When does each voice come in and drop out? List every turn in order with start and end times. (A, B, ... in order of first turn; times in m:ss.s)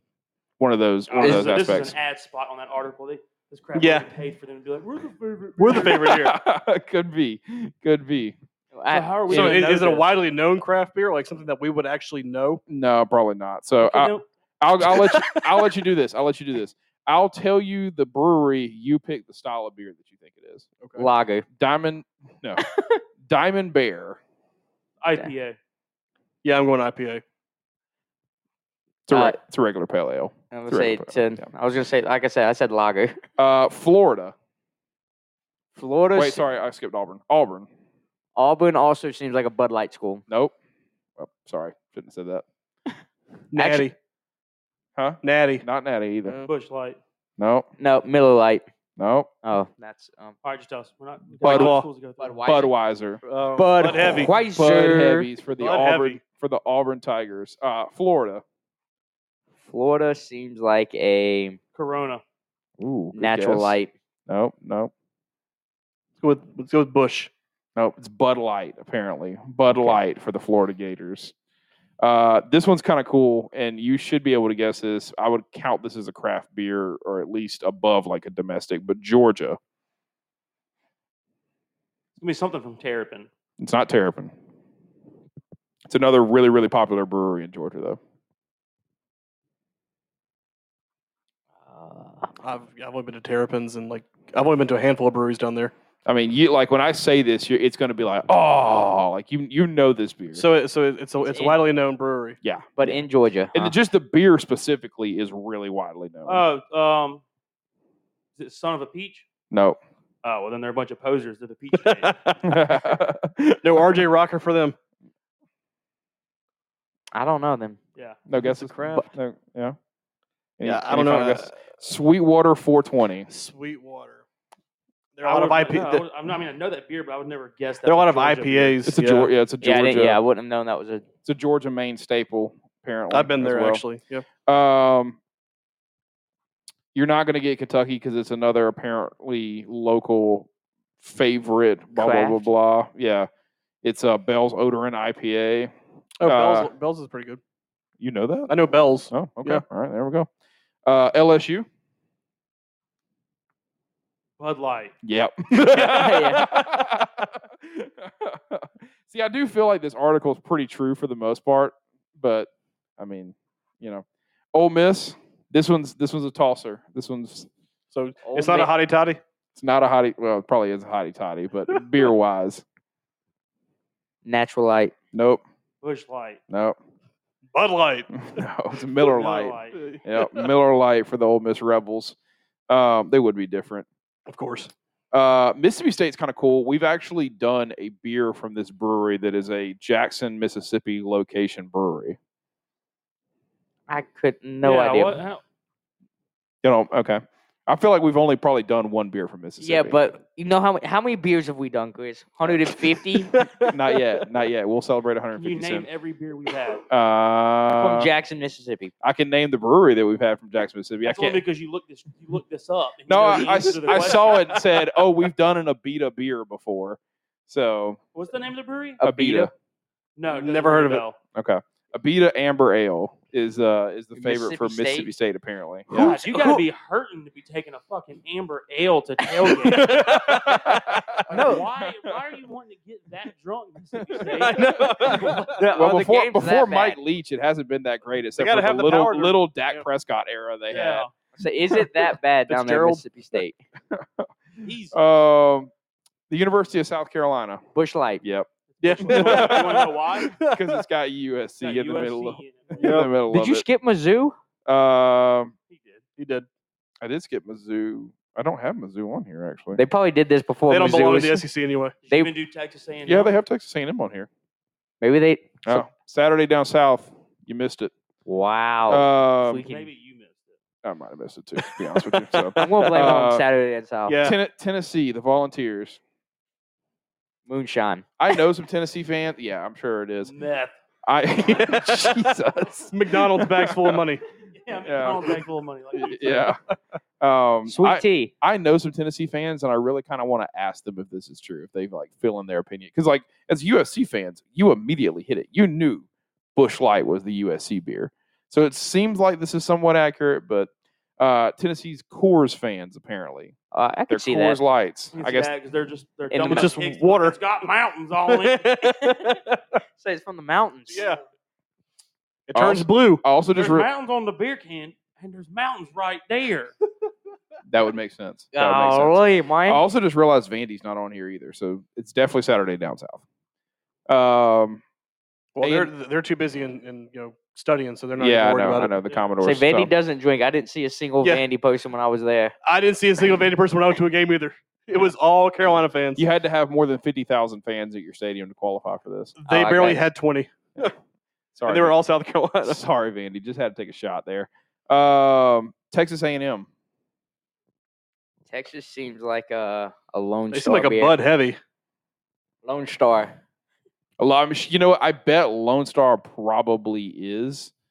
0:00.6-0:02.0 A
0:01.1-0:06.2 B
0:03.8-0:04.0 C
0:05.6-0:06.4 C
0:05.7-0:08.4 A
0:08.7-0:09.1 D
0:08.9-0:10.1 B
0:09.3-0:12.6 C
0:09.3-0:09.6 A
0:12.7-0:20.7 A
0:13.8-0:14.2 B
0:14.8-0:15.7 C
0:20.8-0:21.1 C
0:21.0-0:21.4 D
0:21.6-0:22.6 A
0:22.6-0:23.0 D
0:23.2-0:24.2 A
0:25.0-0:25.6 B
0:26.4-0:27.2 C
0:29.1-0:31.5 A
0:29.1-0:29.4 D
0:30.5-0:33.2 D
0:33.4-0:34.3 A
0:35.8-0:36.4 D
0:36.1-0:37.7 A
0:38.4-0:40.2 D
0:40.3-0:40.5 A
0:41.2-0:42.4 A
0:43.5-0:43.9 C
0:43.5-0:43.9 D
0:45.0-0:46.4 A
0:45.2-0:45.6 C
0:46.2-0:46.5 C
0:46.4-0:47.0 B
0:47.4-0:47.7 A
0:47.8-0:48.6 D
0:49.0-0:49.3 A
0:49.4-0:50.4 D
0:50.4-0:52.4 B
0:51.4-0:51.7 A
0:51.4-0:51.9 C
0:52.2-0:52.7 D
0:52.4-0:53.2 A
0:53.2-0:54.4 C
0:53.6-0:55.3 D
0:54.5-0:58.4 A
0:55.6-0:56.2 C
0:59.6-1:01.6 D
1:01.7-1:02.2 B
1:02.8-1:04.9 A
1:03.1-1:03.9 D
1:06.2-1:07.3 C
1:07.8-1:11.3 A
1:09.7-1:10.0 D
1:12.0-1:19.6 A
1:22.2-1:23.3 B
1:23.6-1:24.3 A
1:25.9-1:28.0 A
1:31.7-1:32.3 D
1:32.4-1:35.7 C
1:36.0-1:40.4 A
1:40.3-1:42.4 C
1:41.2-1:41.6 D
1:42.4-1:46.4 A
1:42.8-1:43.7 D
1:46.2-1:47.2 B
1:48.4-1:49.2 B
1:49.5-1:49.8 A
1:50.2-1:52.2 B
1:51.8-1:52.5 C
1:52.4-1:54.0 A
1:53.6-1:54.8 C
1:57.1-1:57.8 D
1:58.3-1:59.8 A
1:58.4-1:59.0 C
2:00.6-2:03.3 A
2:00.6-2:01.6 C
2:03.3-2:04.2 C
2:05.2-2:06.0 C
2:05.2-2:08.8 B
2:07.9-2:09.3 C
2:08.9-2:10.2 A
2:09.6-2:11.0 D
2:11.2-2:13.8 A
2:13.1-2:14.2 C
2:14.4-2:15.2 A
2:16.9-2:20.5 A
2:21.0-2:23.3 A
2:21.9-2:22.5 D
2:23.8-2:26.7 A
2:26.2-2:27.4 C
2:28.0-2:28.5 A
2:28.5-2:29.6 C
2:29.1-2:30.3 A
2:30.8-2:31.7 A
2:34.4-2:34.9 B
2:35.0-2:47.5 A
2:35.7-2:36.1 C
2:35.7-2:36.5 D
2:47.9-2:49.2 C
2:48.2-2:48.7 D
2:49.5-2:52.6 A
2:54.2-2:54.9 D
2:55.1-2:55.4 A
2:55.8-2:56.4 B
2:56.5-2:56.8 A
2:57.5-2:58.2 C
2:58.2-3:02.2 A
2:59.0-2:59.8 B
2:59.7-3:00.5 C
3:02.7-3:03.9 A
3:04.3-3:04.7 C
3:05.1-3:12.2 A
3:13.9-3:15.2 D
3:14.6-3:15.4 B
3:16.6-3:20.0 A
3:19.6-3:23.3 D
3:23.1-3:24.0 C
3:23.7-3:25.9 A
3:25.4-3:26.8 B
3:26.9-3:28.1 A
3:27.8-3:28.9 D
3:29.0-3:31.4 A
3:31.0-3:34.5 B
3:33.1-3:38.0 A
3:33.4-3:34.8 C
3:38.1-3:39.4 B
3:39.0-3:39.5 A
3:40.2-3:41.2 B
3:40.3-3:41.0 C
3:41.4-3:46.2 A
3:44.1-3:45.1 D
3:45.9-3:46.6 C
3:45.9-3:50.2 B
3:49.4-3:51.2 C
3:50.0-3:52.2 A
3:51.3-3:55.6 B
3:51.3-3:51.6 D
3:54.0-4:01.1 A
3:54.2-3:55.7 C
3:55.6-3:57.0 D
3:58.4-3:59.8 C
4:00.7-4:01.1 B
4:01.4-4:03.6 D
4:01.7-4:03.4 C
4:03.9-4:04.3 A
4:04.6-4:05.1 B
4:04.9-4:05.7 A
4:06.3-4:07.6 A
4:07.7-4:08.2 D
4:08.2-4:13.6 A
4:08.7-4:10.4 B
4:08.8-4:10.8 C
4:11.6-4:13.1 B
4:12.8-4:13.1 C
4:13.3-4:14.4 D
4:14.6-4:15.5 A
4:15.7-4:16.0 B
4:16.2-4:16.5 C
4:17.0-4:19.8 A
4:19.8-4:21.4 D
4:20.7-4:22.0 C
4:22.0-4:23.4 B
4:23.0-4:24.3 A
4:25.0-4:25.8 D
4:25.6-4:27.9 A
4:28.2-4:29.9 D
4:28.9-4:29.6 A
4:29.6-4:30.6 B
4:30.8-4:33.4 A
4:31.6-4:33.2 C
4:32.6-4:34.2 D
4:34.1-4:34.4 C
4:34.2-4:36.0 A
4:37.5-4:38.0 D
4:38.2-4:40.3 A
4:40.2-4:40.7 B
4:41.0-4:44.0 A
4:41.5-4:42.3 C
4:42.9-4:44.2 C
4:44.5-4:46.5 B
4:44.8-4:45.4 A
4:45.9-4:46.4 C
4:46.0-4:46.6 A
4:47.2-5:03.5 A
4:47.6-4:48.3 D
5:03.7-5:04.6 D
5:04.1-5:05.5 A
5:05.1-5:08.9 B
5:06.3-5:06.7 D
5:06.5-5:07.4 C
5:08.3-5:09.6 C
5:10.0-5:11.1 D
5:10.9-5:11.2 C
5:12.5-5:13.2 C
5:12.5-5:13.9 A
5:13.5-5:16.7 B
5:17.7-5:23.2 A
5:18.5-5:19.8 D
5:24.1-5:24.8 A
5:25.5-5:28.9 C
5:25.6-5:25.9 A
5:28.2-5:29.9 A
5:29.4-5:32.5 D
5:32.6-5:36.2 C
5:36.2-5:39.4 A
5:39.4-5:40.9 C
5:39.4-5:40.1 D
5:41.5-5:41.9 A
5:41.7-5:42.8 C
5:42.6-5:46.7 A
5:48.5-5:51.2 D
5:50.5-5:51.6 C
5:52.6-5:53.3 D
5:54.2-5:57.7 A